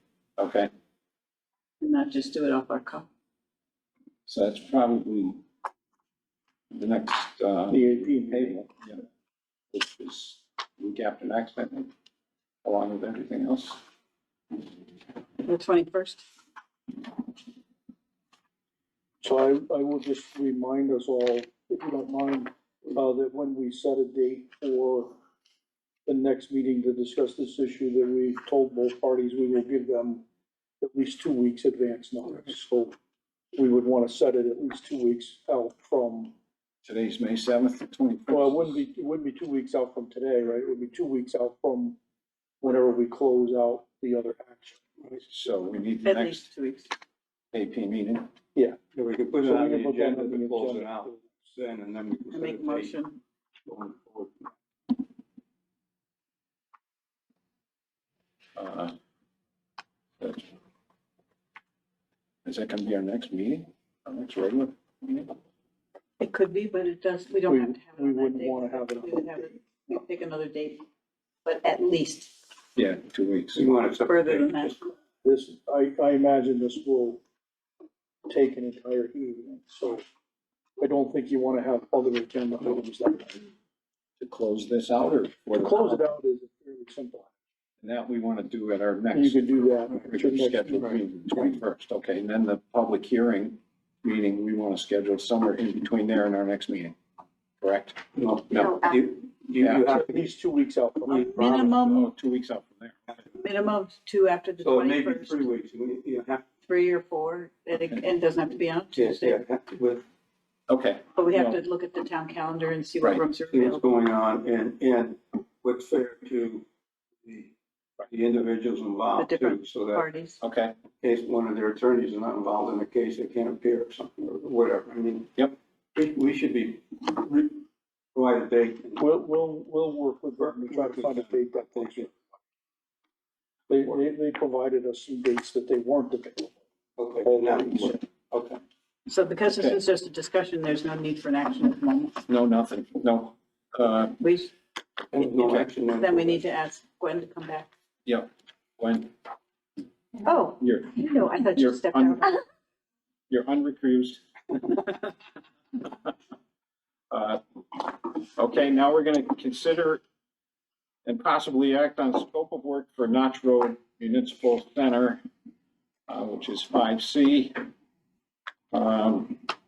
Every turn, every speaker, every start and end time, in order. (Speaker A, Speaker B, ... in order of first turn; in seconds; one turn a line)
Speaker A: 0.4-0.7
Speaker B: 1.8-3.1
Speaker A: 4.2-5.4
Speaker A: 6.7-9.0
Speaker C: 7.7-8.5
Speaker A: 9.7-11.9
Speaker A: 12.6-13.8
Speaker B: 15.4-16.2
Speaker C: 19.2-25.1
Speaker C: 26.1-30.2
Speaker C: 30.8-33.0
Speaker C: 33.5-36.3
Speaker A: 36.8-38.7
Speaker C: 38.3-42.0
Speaker C: 42.6-44.8
Speaker A: 45.2-46.4
Speaker B: 46.0-46.9
Speaker A: 47.5-48.3
Speaker D: 48.9-53.0
Speaker C: 49.4-51.2
Speaker B: 52.3-53.2
Speaker D: 53.6-54.5
Speaker A: 58.5-58.9
Speaker A: 60.2-60.5
Speaker A: 62.4-65.3
Speaker B: 66.2-70.8
Speaker C: 67.5-69.5
Speaker B: 71.4-72.4
Speaker A: 72.8-73.6
Speaker D: 73.5-74.8
Speaker B: 74.1-74.8
Speaker C: 75.2-77.2
Speaker C: 78.3-80.0
Speaker C: 80.8-83.5
Speaker A: 84.2-86.0
Speaker C: 85.6-87.3
Speaker A: 87.8-96.9
Speaker C: 89.1-91.0
Speaker A: 97.6-98.8
Speaker D: 98.1-100.3
Speaker C: 99.8-101.5
Speaker D: 101.0-101.8
Speaker B: 101.1-102.1
Speaker A: 101.8-103.2
Speaker B: 103.3-105.5
Speaker D: 104.6-106.5
Speaker B: 106.7-109.4
Speaker D: 109.0-110.0
Speaker A: 110.7-111.1
Speaker B: 111.2-113.9
Speaker D: 113.5-116.7
Speaker D: 117.2-117.5
Speaker D: 118.0-120.0
Speaker B: 119.2-120.4
Speaker A: 120.4-120.7
Speaker D: 121.0-127.6
Speaker D: 128.1-129.1
Speaker C: 129.0-132.1
Speaker D: 130.4-132.1
Speaker C: 133.7-136.5
Speaker D: 137.0-138.6
Speaker C: 137.2-137.9
Speaker B: 139.1-142.2
Speaker A: 142.3-144.2
Speaker B: 144.2-144.5
Speaker D: 145.1-146.4
Speaker B: 145.4-147.7
Speaker A: 148.1-149.1
Speaker B: 150.2-152.4
Speaker A: 150.6-152.4
Speaker A: 153.3-154.7
Speaker A: 157.1-160.0
Speaker A: 161.0-165.2
Speaker A: 166.1-167.6
Speaker A: 168.7-169.5